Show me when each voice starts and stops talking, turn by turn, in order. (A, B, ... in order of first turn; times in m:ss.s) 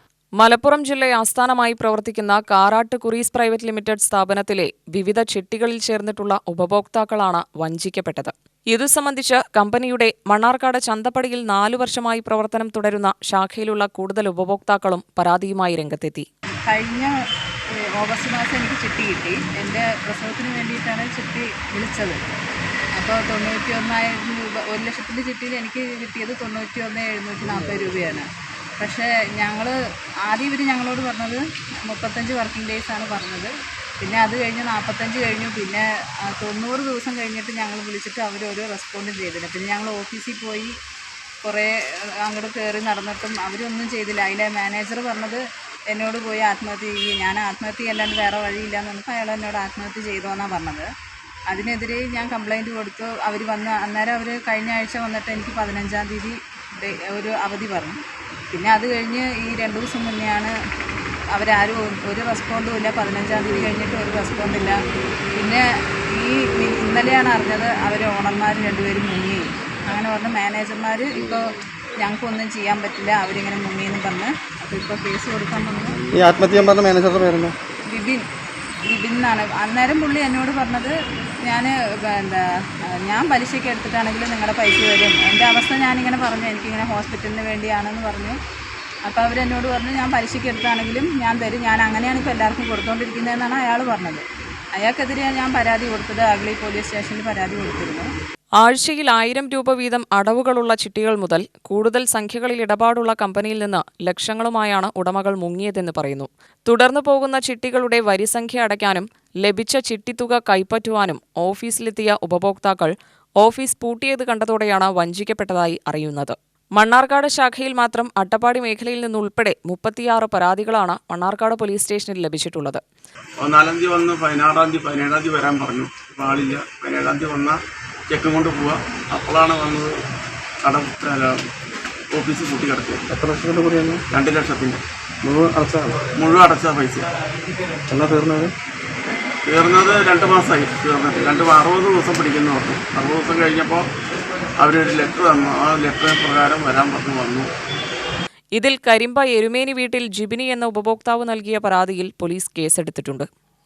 0:00.4-0:16.3 A
0:16.7-0:17.1 B
0:17.7-0:22.2 B
0:23.0-0:28.3 B
0:28.8-0:33.5 B
0:34.0-0:40.7 B
0:41.4-0:50.9 B
0:51.5-0:58.0 B
0:58.5-1:00.5 B
1:01.3-1:04.8 B
1:05.4-1:16.7 B
1:16.1-1:17.6 C
1:17.9-1:18.2 B
1:18.9-1:28.4 B
1:29.0-1:38.1 B
1:38.6-2:02.8 A
2:03.4-2:07.5 D
2:08.1-2:09.8 D
2:10.6-2:11.2 D
2:12.2-2:12.9 D
2:13.1-2:14.0 C
2:14.2-2:14.7 D
2:15.2-2:16.0 C
2:16.2-2:16.9 D
2:17.9-2:18.5 C
2:19.5-2:23.8 D
2:24.6-2:27.4 D
2:28.6-2:33.3 A